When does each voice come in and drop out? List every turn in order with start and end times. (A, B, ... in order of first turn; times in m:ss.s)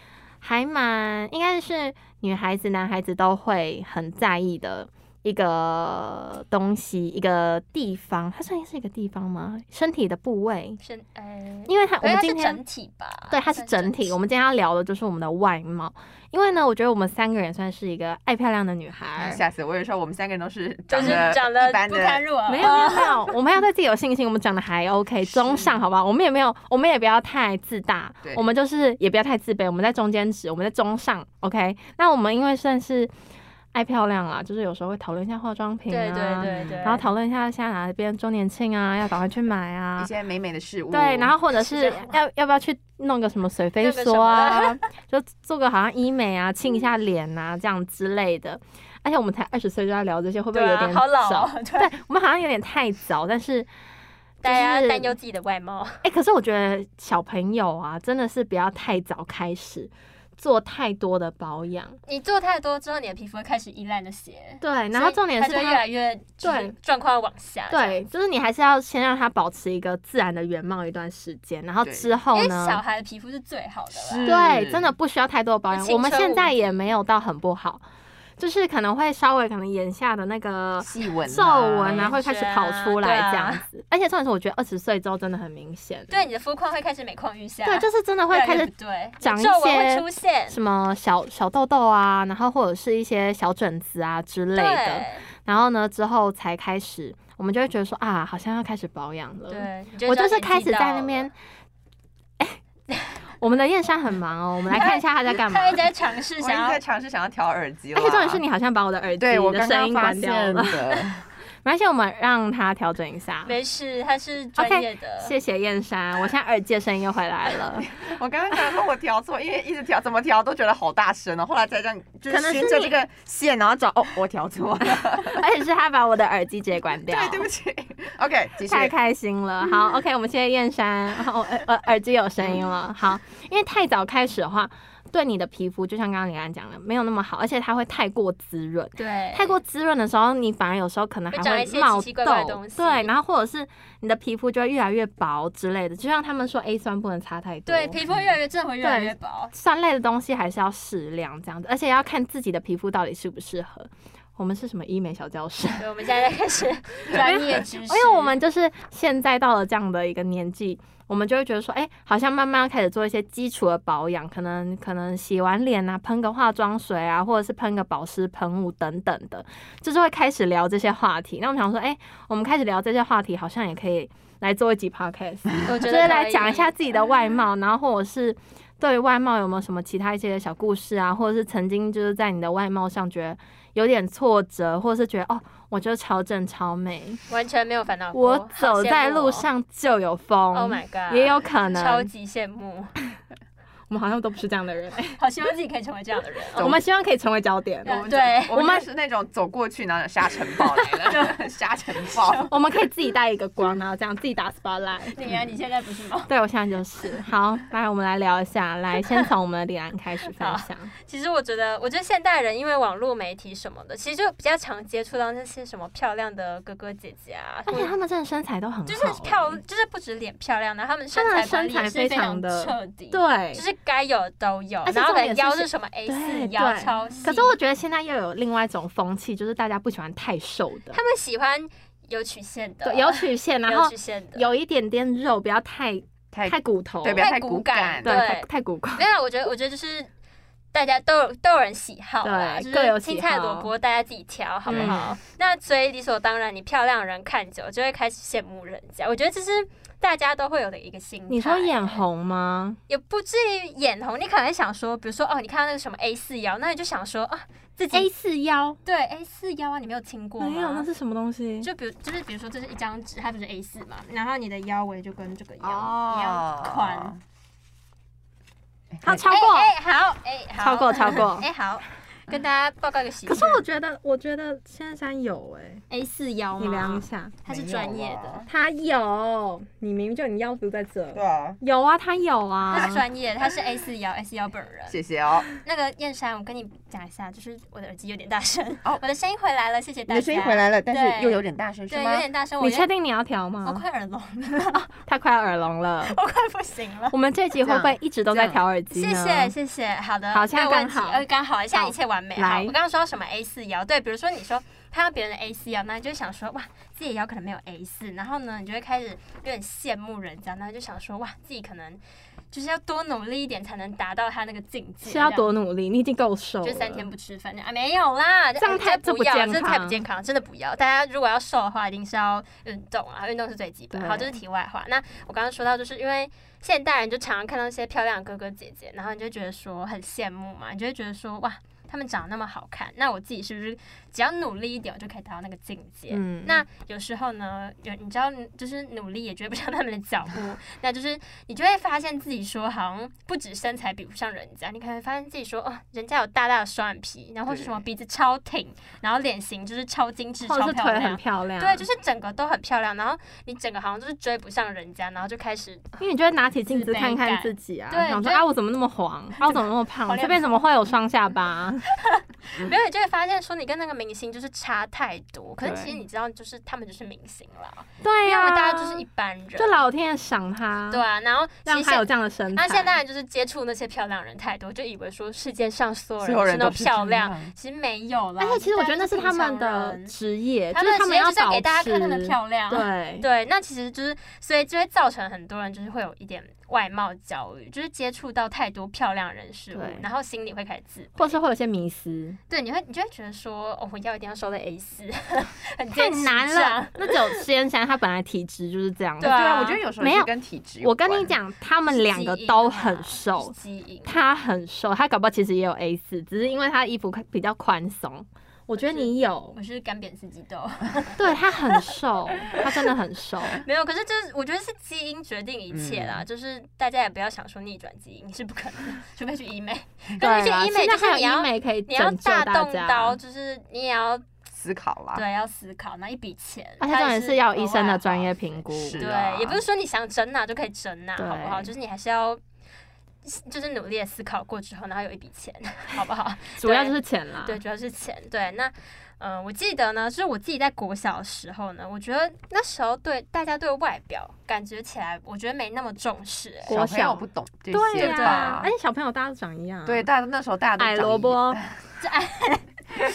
0:00.4-0:10.8 A
0:10.8-0:14.2 B
0:11.7-0:12.6 A
0:13.3-0:19.4 A
0:19.2-0:22.7 C
0:20.9-0:23.3 B
0:21.0-0:21.3 A
0:22.5-0:33.1 A
0:25.3-0:25.7 C
0:33.7-0:40.1 A
0:35.9-0:37.0 B
0:36.4-0:36.8 C
0:40.0-0:41.4 C
0:40.9-0:53.7 A
0:41.5-0:42.2 B
0:43.8-0:44.8 B
0:50.5-0:51.9 B
0:54.4-0:55.1 A
0:54.4-0:56.0 B
0:56.0-1:02.0 A
1:02.0-1:08.0 B
1:04.6-1:05.8 A
1:06.4-1:06.7 A
1:07.7-1:12.8 A
1:11.8-1:12.1 C
1:12.3-1:14.4 B
1:13.9-1:14.9 C
1:14.2-1:17.8 A
1:15.7-1:16.8 B
1:18.4-1:26.2 A
1:20.8-1:22.1 C
1:21.9-1:23.6 B
1:26.1-1:30.6 B
1:27.6-1:28.7 A
1:29.2-1:41.3 A
1:34.5-1:35.2 B
1:39.5-1:41.3 B
1:42.9-1:43.2 B
1:43.4-1:45.8 A
1:44.7-1:46.8 B
1:46.4-1:48.4 C
1:47.9-1:51.0 A
1:49.2-1:51.2 C
1:51.6-1:53.5 A
1:53.4-1:55.3 B
1:54.6-1:57.9 A
1:57.9-2:05.4 C
2:02.3-2:03.0 A
2:05.2-2:07.5 A
2:07.1-2:08.9 C
2:08.6-2:28.0 A
2:19.0-2:19.6 B
2:21.3-2:23.1 B
2:27.6-2:29.5 B
2:28.8-2:35.8 A
2:35.8-2:38.4 B
2:37.1-3:07.2 A
2:55.6-2:56.7 B
3:07.3-3:09.5 B
3:08.1-3:12.1 A
3:10.5-3:12.9 B
3:13.9-3:15.2 A
3:15.2-3:16.7 B
3:16.6-3:18.0 A
3:17.8-3:18.6 B
3:17.8-3:22.5 C
3:18.5-3:18.8 A
3:21.1-3:21.4 B
3:22.0-3:22.5 B
3:22.5-3:25.2 A
3:25.1-3:26.3 B
3:26.3-3:30.9 A
3:30.4-3:37.9 B
3:37.7-3:39.6 A
3:38.8-3:47.5 B
3:41.1-3:43.6 A
3:44.8-3:51.0 A
3:50.9-3:54.5 B
3:52.8-3:57.2 A
3:56.3-3:58.2 C
3:57.2-4:00.1 B
3:58.0-3:59.0 A
4:00.7-4:12.0 B
4:02.2-4:03.7 A
4:04.7-4:05.1 A
4:04.7-4:05.0 C
4:11.3-4:12.8 A
4:12.9-4:18.1 B
4:17.9-4:18.8 A
4:18.8-4:20.9 B
4:20.4-4:21.7 A
4:21.6-4:27.1 B
4:25.6-4:27.2 C
4:28.9-4:29.2 C
4:29.0-4:29.7 A
4:29.2-4:33.6 B
4:30.6-4:31.5 A
4:33.2-4:35.8 A
4:35.9-4:38.4 B
4:36.6-4:37.3 A
4:37.5-4:38.5 C
4:38.5-4:43.0 A
4:41.1-4:41.6 C
4:42.7-4:45.0 B
4:44.9-4:45.5 C
4:45.6-4:52.9 B
4:50.1-4:52.3 C
4:52.6-4:53.8 A
4:53.6-4:54.8 B
4:54.7-4:56.2 A
4:56.0-4:57.2 B
4:57.1-4:59.5 A
4:57.6-4:58.6 C
4:58.9-5:15.5 B
5:00.3-5:02.7 A
5:15.0-5:17.1 A
5:16.6-5:56.0 B
5:18.6-5:20.0 A
5:23.9-5:24.4 A
5:36.1-5:36.6 A
5:47.5-5:47.8 C
5:50.4-5:51.8 A
5:56.0-6:01.8 A
5:56.7-5:58.4 B
5:59.4-6:00.6 B
6:02.0-6:09.8 B
6:05.6-6:05.9 A
6:08.0-6:09.0 A
6:09.6-6:11.0 A
6:10.9-6:20.1 B
6:11.6-6:12.9 A
6:16.2-6:17.5 C
6:18.4-6:23.2 A
6:20.7-6:31.4 B
6:29.7-6:30.0 A
6:31.2-6:32.4 A
6:32.5-6:37.2 B
6:35.9-6:40.3 A
6:39.2-6:39.8 B
6:39.2-6:41.3 C
6:40.8-6:49.6 A
6:41.9-6:44.1 B
6:48.8-6:51.9 B
6:51.2-6:53.6 A
6:53.6-7:04.2 B
6:55.7-6:56.2 C
7:00.2-7:03.2 A
7:04.5-7:05.2 C
7:05.1-7:08.3 B
7:06.8-7:09.0 A
7:08.7-7:09.6 C
7:09.0-7:12.4 B
7:11.2-7:11.7 A
7:13.2-7:26.7 B
7:16.6-7:17.6 A
7:26.7-7:28.7 C
7:26.7-7:30.1 A
7:28.0-7:28.6 B
7:29.8-7:31.7 C
7:30.8-7:31.6 A
7:32.0-7:32.7 B